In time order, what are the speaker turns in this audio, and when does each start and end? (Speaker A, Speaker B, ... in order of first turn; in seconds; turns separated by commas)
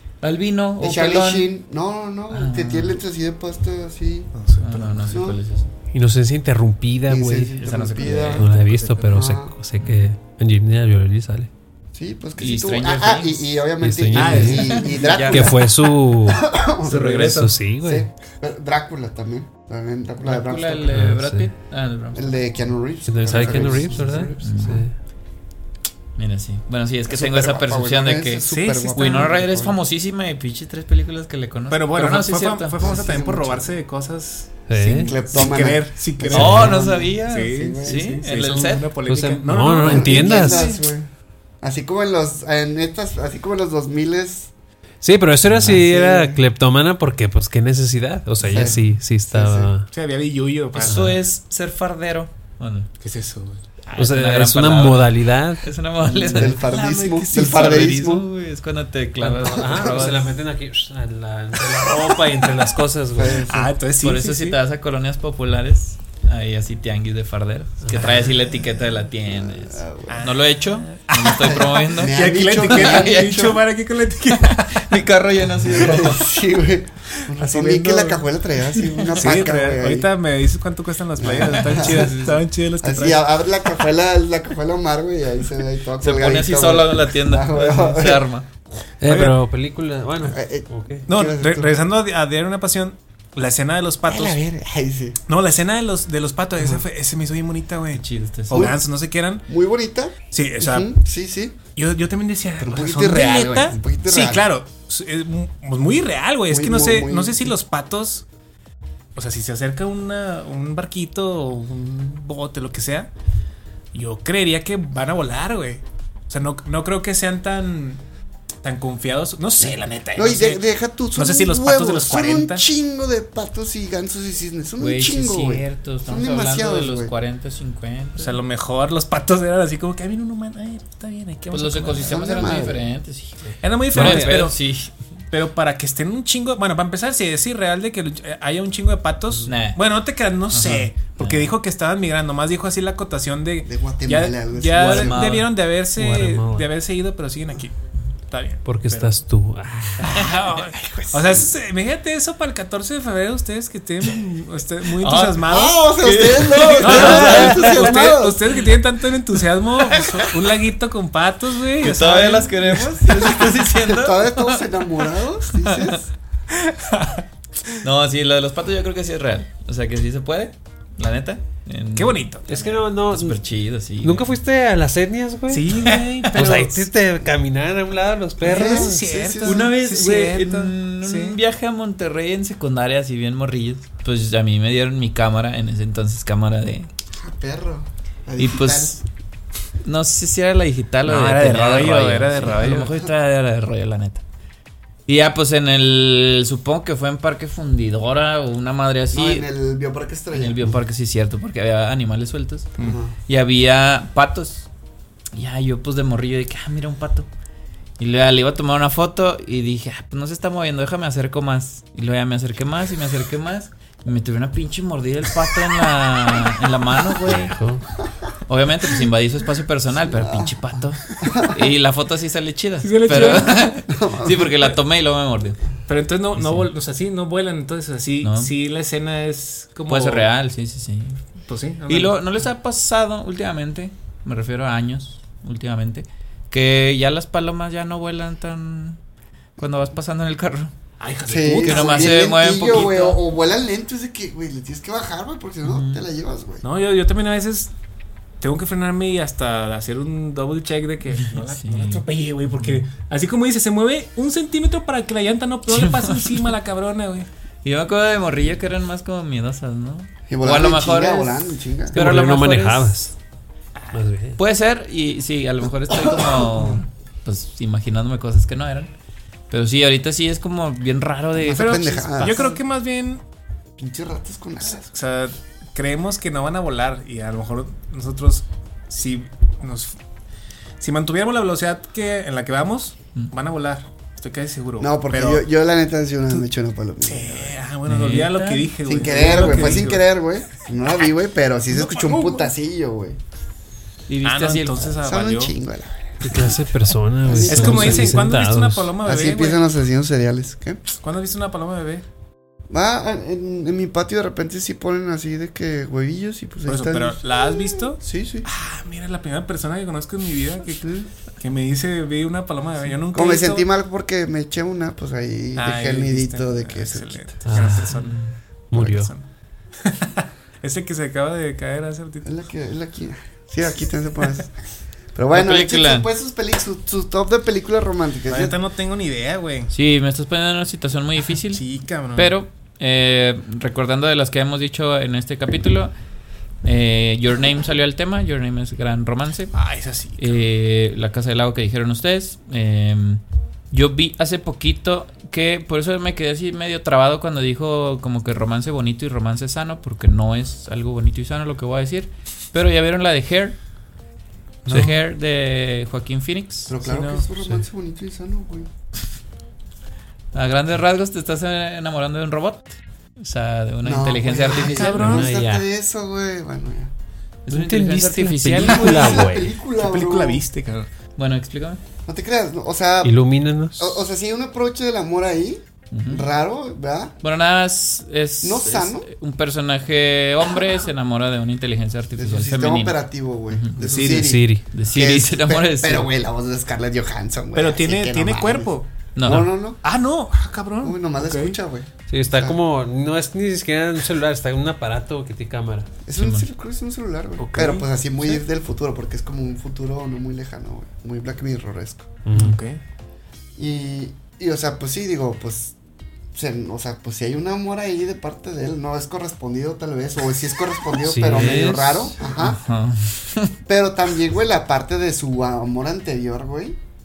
Speaker A: 0.2-1.5, Speaker B: 0.8-4.3, Speaker A: 2.3-3.0, Speaker C: 4.3-5.2, Speaker A: 4.6-5.7, Speaker B: 5.0-5.4, Speaker D: 5.9-7.5, Speaker B: 7.1-8.5, Speaker A: 7.6-8.5, Speaker C: 7.9-9.3, Speaker D: 8.3-11.5, Speaker B: 9.1-9.5, Speaker B: 11.9-15.7, Speaker A: 12.4-13.4, Speaker D: 13.8-14.7, Speaker C: 14.1-15.0, Speaker A: 14.3-15.6, Speaker D: 15.3-16.5, Speaker B: 16.2-17.0, Speaker A: 16.8-17.6, Speaker C: 16.9-17.5, Speaker D: 17.2-18.1, Speaker B: 17.8-21.1, Speaker A: 20.2-22.4, Speaker D: 20.9-21.5, Speaker B: 22.1-24.8, Speaker D: 23.1-24.9, Speaker A: 24.4-24.8, Speaker A: 26.2-33.1, Speaker B: 27.1-29.8, Speaker C: 28.5-29.3, Speaker C: 31.7-40.8, Speaker B: 32.8-33.7, Speaker D: 34.7-35.1, Speaker B: 35.0-38.1, Speaker A: 36.3-39.5, Speaker D: 39.1-40.7, Speaker B: 39.8-41.1, Speaker B: 41.6-44.5, Speaker D: 45.0-49.9, Speaker B: 45.6-46.4, Speaker B: 48.4-49.7, Speaker C: 48.5-48.9, Speaker C: 49.9-51.2, Speaker A: 50.7-52.9, Speaker D: 50.8-51.1, Speaker C: 53.0-53.9, Speaker A: 53.9-56.8, Speaker D: 54.0-56.6, Speaker B: 56.3-58.3, Speaker C: 56.7-57.9, Speaker A: 57.3-60.3, Speaker D: 59.2-63.4, Speaker B: 59.6-60.0, Speaker B: 63.1-63.7, Speaker C: 63.5-64.6, Speaker A: 64.0-73.5, Speaker B: 68.0-70.3, Speaker C: 70.1-74.9, Speaker B: 71.4-73.6, Speaker A: 74.3-76.2, Speaker C: 75.6-76.1, Speaker B: 75.7-80.1, Speaker C: 77.4-78.2, Speaker A: 78.8-79.2, Speaker C: 79.2-83.2, Speaker B: 81.2-88.3, Speaker A: 81.2-82.4, Speaker A: 86.0-88.5, Speaker D: 89.0-91.0, Speaker C: 89.0-89.4, Speaker B: 90.3-91.7, Speaker C: 91.1-94.4, Speaker B: 94.0-95.2, Speaker C: 95.3-99.4, Speaker B: 96.6-96.8, Speaker A: 97.9-98.7, Speaker B: 98.5-98.8, Speaker B: 99.5-101.6, Speaker C: 100.3-100.9, Speaker C: 101.8-108.2, Speaker B: 102.6-104.5, Speaker B: 106.5-107.5, Speaker C: 109.2-113.1, Speaker C: 113.9-118.0, Speaker C: 118.6-122.6, Speaker B: 120.2-127.1, Speaker A: 124.8-128.4, Speaker C: 128.2-132.6, Speaker A: 131.5-134.9, Speaker B: 132.1-132.9, Speaker C: 133.6-134.6, Speaker D: 133.9-134.4, Speaker C: 135.3-147.8, Speaker A: 139.4-139.8, Speaker A: 140.5-141.5, Speaker B: 143.7-145.2, Speaker A: 144.7-145.5, Speaker D: 146.0-146.7, Speaker C: 148.3-149.2, Speaker D: 148.7-150.1, Speaker C: 150.0-163.0, Speaker B: 150.6-151.5, Speaker A: 155.0-158.7, Speaker B: 155.5-158.5, Speaker A: 159.4-160.4, Speaker A: 161.8-164.8, Speaker B: 163.0-166.1, Speaker A: 165.6-166.0, Speaker C: 166.7-167.2, Speaker A: 167.8-174.3, Speaker C: 172.0-172.5, Speaker D: 172.5-173.4, Speaker D: 174.0-179.0, Speaker C: 175.5-176.9, Speaker A: 175.8-176.1, Speaker B: 178.4-179.8, Speaker C: 178.4-181.4, Speaker A: 179.4-186.9, Speaker B: 187.2-189.0, Speaker A: 188.4-189.0, Speaker A: 189.8-194.2, Speaker C: 191.1-193.1, Speaker A: 195.1-199.5, Speaker B: 199.1-200.8, Speaker A: 200.3-204.7, Speaker B: 202.8-203.2, Speaker A: 205.3-207.3, Speaker A: 208.0-217.5, Speaker D: 217.2-217.8, Speaker A: 218.5-225.6, Speaker B: 220.1-220.6, Speaker B: 221.2-221.7, Speaker C: 222.8-223.7, Speaker B: 223.9-224.8, Speaker C: 225.9-230.3, Speaker A: 226.3-226.7, Speaker A: 228.2-228.5, Speaker A: 229.9-231.2, Speaker C: 231.5-232.2, Speaker A: 231.9-239.0, Speaker A: 239.6-240.7, Speaker C: 241.0-242.9, Speaker B: 241.3-246.6, Speaker A: 241.6-243.2, Speaker A: 245.7-246.0, Speaker C: 246.6-247.7, Speaker C: 248.4-257.3, Speaker A: 251.2-252.0, Speaker A: 252.6-252.8, Speaker A: 255.7-256.5, Speaker A: 257.6-263.0, Speaker B: 260.3-262.0, Speaker D: 261.9-263.1, Speaker D: 263.9-264.4, Speaker A: 264.4-268.9, Speaker B: 266.2-266.8, Speaker A: 269.5-272.5, Speaker B: 271.4-272.5, Speaker C: 271.5-273.2, Speaker B: 273.8-274.9, Speaker C: 274.9-280.0, Speaker C: 280.8-285.5, Speaker B: 284.8-287.6, Speaker C: 287.0-290.0, Speaker A: 287.9-289.8, Speaker B: 288.8-293.2, Speaker C: 291.7-292.5, Speaker A: 294.1-295.0, Speaker C: 294.2-295.5, Speaker B: 295.0-296.5, Speaker D: 296.2-298.9, Speaker B: 297.2-298.3, Speaker C: 297.3-299.6, Speaker B: 299.0-300.8, Speaker C: 301.0-302.1, Speaker B: 302.7-308.5, Speaker C: 306.7-313.6, Speaker B: 310.8-311.1, Speaker B: 313.1-317.8, Speaker C: 315.6-318.2, Speaker D: 317.4-318.0, Speaker A: 317.8-318.4, Speaker D: 318.7-319.1, Speaker C: 318.8-319.3, Speaker C: 319.8-322.4, Speaker B: 322.2-324.6, Speaker B: 325.1-328.5, Speaker A: 325.3-326.1, Speaker C: 328.3-329.7, Speaker A: 329.7-335.9, Speaker C: 331.5-332.3, Speaker A: 336.6-339.6, Speaker C: 339.5-340.4, Speaker A: 340.2-353.6, Speaker C: 354.6-354.9, Speaker A: 354.7-356.7, Speaker B: 356.7-358.7, Speaker C: 356.8-357.3, Speaker A: 360.3-365.2, Speaker B: 363.8-366.9, Speaker C: 364.6-365.3, Speaker D: 365.0-365.7, Speaker A: 367.5-369.2, Speaker D: 367.5-369.5, Speaker C: 367.7-370.9, Speaker B: 368.6-370.4, Speaker A: 371.2-371.8, Speaker B: 372.1-373.2, Speaker D: 373.0-373.9, Speaker B: 373.8-377.1, Speaker A: 375.9-376.3, Speaker A: 377.2-383.0, Speaker B: 378.4-379.1, Speaker B: 382.2-388.7, Speaker A: 383.5-383.8, Speaker C: 383.8-384.3, Speaker D: 384.1-384.6, Speaker A: 384.7-386.1, Speaker C: 387.5-391.6, Speaker A: 389.1-389.5, Speaker B: 389.2-389.8, Speaker B: 390.8-392.6, Speaker D: 392.1-395.9, Speaker B: 396.1-402.1, Speaker A: 396.2-396.5, Speaker C: 397.4-398.4, Speaker D: 402.2-402.6, Speaker C: 402.4-402.8, Speaker B: 403.6-405.8, Speaker B: 406.3-412.6, Speaker D: 411.0-412.1, Speaker A: 412.4-413.5, Speaker B: 413.7-416.8